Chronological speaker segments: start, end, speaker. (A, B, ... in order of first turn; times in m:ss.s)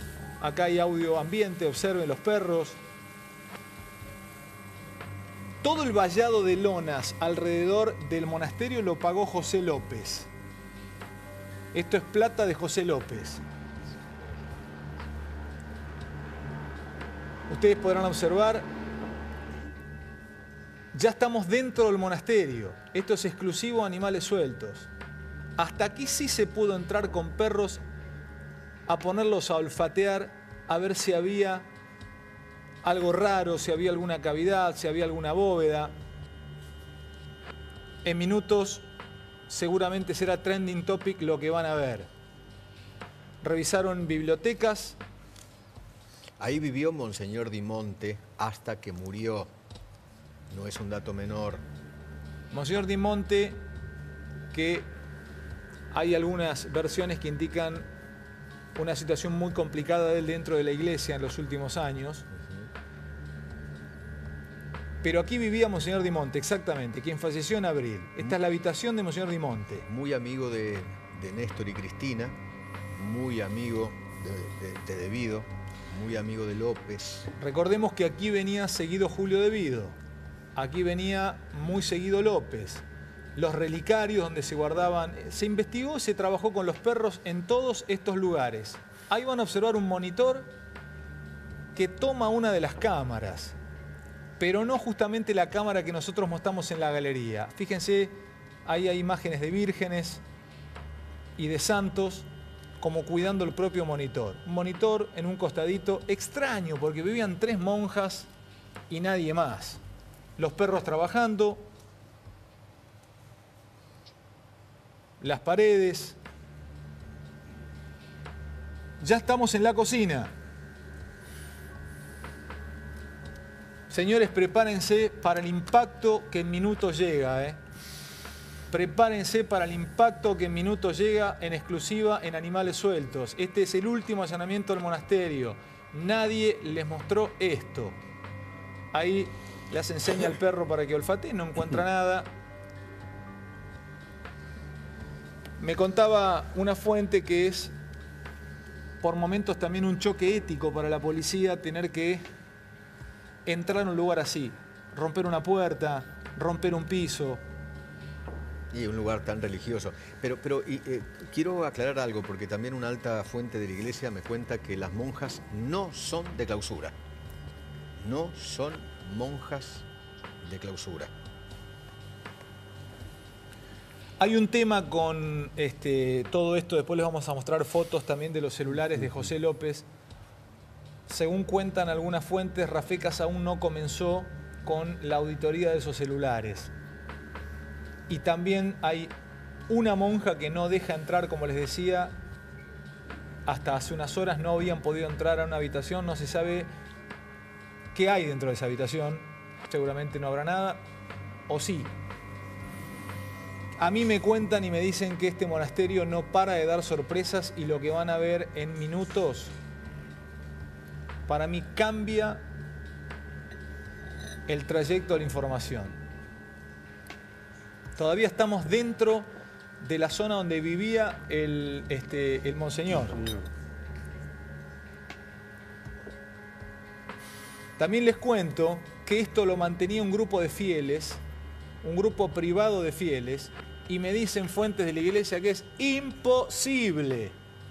0:00.4-0:02.8 A
0:05.6-0:10.3 A
0:11.7-0:13.4 A
0:17.5-0:18.7 A
0:20.9-0:24.9 A
0:25.6-0:27.8 A
0:28.9-0:31.7 A
0:32.8-0:35.9 A
0:38.0-0:38.9 A
0:39.5-0:42.1 A
0:43.4-0:45.0 A
0:46.4-0:49.5 B
0:50.5-0:51.6 B
0:52.5-0:53.6 A
0:54.5-0:54.9 A
0:55.9-0:57.9 A
0:58.8-1:02.3 A
1:02.4-1:02.7 B
1:05.0-1:09.9 A
1:09.9-1:12.4 B
1:13.0-1:17.3 B
1:17.4-1:20.0 A
1:20.6-1:22.8 A
1:23.4-1:30.5 A
1:31.7-1:33.6 A
1:34.4-1:40.2 A
1:41.4-1:42.3 A
1:42.8-1:48.3 A
1:48.9-1:49.8 A
1:50.4-1:51.7 A
1:55.2-1:56.2 A
1:59.0-2:00.3 A
2:03.9-2:07.6 A
2:08.7-2:18.0 A
2:18.9-2:22.3 A
2:25.6-2:27.7 A
2:29.0-2:32.3 A
2:33.5-2:37.4 A
2:38.7-2:46.9 B
2:48.0-2:49.8 B
2:50.4-2:51.1 B
2:54.2-2:59.9 A
3:01.1-3:06.7 A
3:08.1-3:09.1 A
3:09.7-3:12.2 A
3:13.5-3:16.7 A
3:17.9-3:20.8 A
3:21.5-3:21.9 A
3:23.8-3:29.5 A
3:31.3-3:32.4 A
3:34.5-3:36.0 A
3:38.0-3:43.2 A
3:47.8-3:51.2 A
3:51.8-3:57.4 A